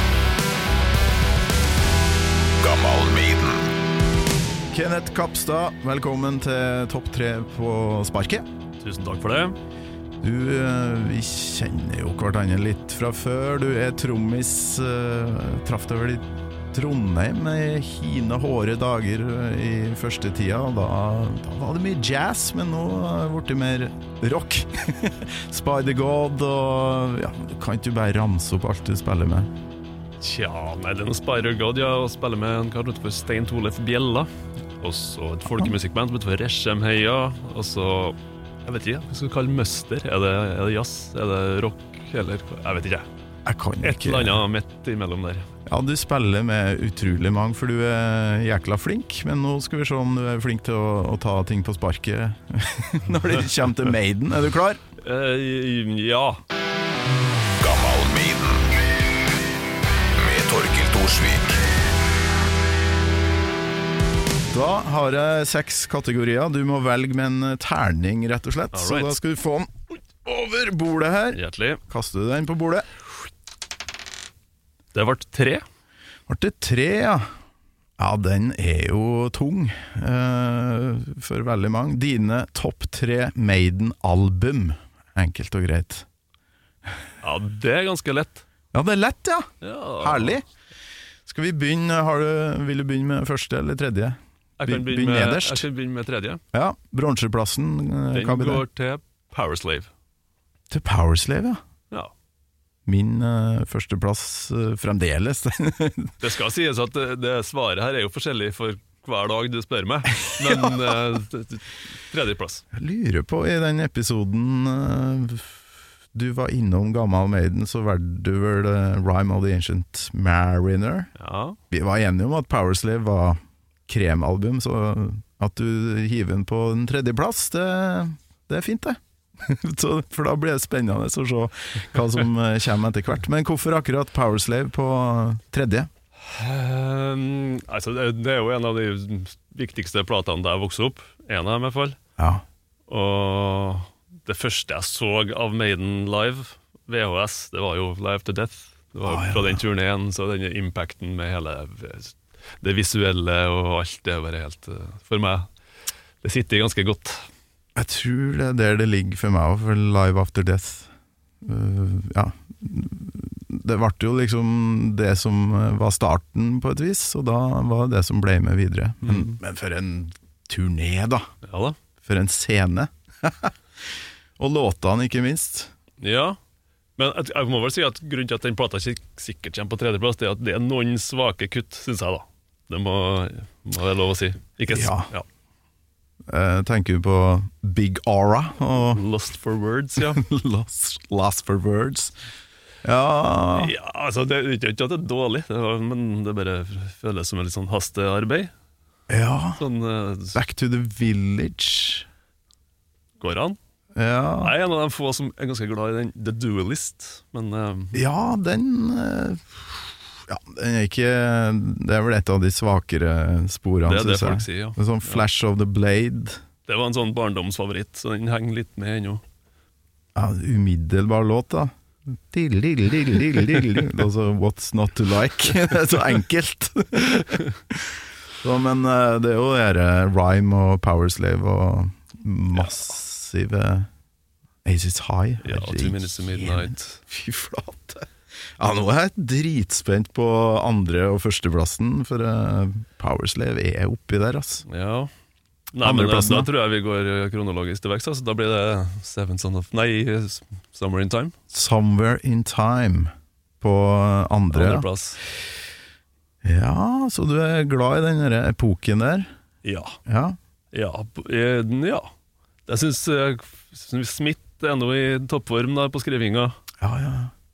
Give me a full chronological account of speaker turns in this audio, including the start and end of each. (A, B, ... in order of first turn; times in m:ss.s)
0:02.6-0:03.7 A
0:04.7-0:08.4 B
0:08.8-0:09.6 C
0:10.2-0:29.5 B
0:30.2-0:34.3 C
0:34.8-0:43.1 C
0:43.4-0:44.4 B
0:43.8-0:45.5 C
0:45.7-0:54.8 B
0:55.0-0:56.4 C
0:57.6-0:58.7 A
1:00.2-1:01.6 A
1:04.5-1:12.9 B
1:08.7-1:09.2 C
1:11.3-1:11.8 C
1:14.9-1:15.6 C
1:16.3-1:17.3 B
1:18.0-1:26.0 B
1:27.2-1:28.5 C
1:28.7-1:29.5 B
1:29.6-1:30.4 C
1:30.0-1:30.4 B
1:31.3-1:35.6 B
1:34.6-1:36.4 C
1:36.5-1:38.6 B
1:38.1-1:39.9 C
1:40.7-1:41.6 B
1:42.9-1:46.2 B
1:46.2-1:52.6 C
1:50.4-1:50.8 B
1:52.7-1:55.6 B
1:56.1-2:01.1 B
2:01.2-2:01.6 C
2:01.7-2:15.9 B
2:16.2-2:22.0 C
2:22.2-2:22.4 B
2:22.9-2:35.5 C
2:29.1-2:29.6 B
2:36.2-2:37.3 C
2:37.8-2:40.9 B
2:41.4-2:51.3 B
2:49.0-2:49.4 C
2:51.5-2:51.8 C
2:52.0-2:53.6 B
2:54.4-2:55.7 B
2:56.0-2:56.4 C
2:57.0-3:05.3 C
3:04.7-3:05.1 B
3:06.3-3:09.0 B
3:08.9-3:10.2 C
3:10.1-3:12.1 B
3:12.8-3:13.7 B
3:13.6-3:18.5 C
3:19.1-3:19.6 B
3:19.6-3:20.4 C
3:20.4-3:22.1 B
3:23.2-3:23.6 C
3:24.0-3:24.5 B
3:24.4-3:28.0 C
3:27.9-3:36.4 B
3:33.8-3:35.2 C
3:36.7-3:39.2 C
3:40.2-3:47.9 B
3:48.4-3:53.9 B
3:54.6-3:58.1 B
3:55.4-3:57.0 C
3:58.6-4:04.6 B
4:04.7-4:05.1 C
4:05.7-4:11.3 C
4:05.8-4:06.5 B
4:11.5-4:14.9 B
4:14.5-4:15.2 C
4:16.4-4:19.3 B
4:19.6-4:20.0 C
4:20.1-4:20.4 B
4:20.7-4:22.1 C
4:22.7-4:26.6 C
4:26.8-4:27.3 B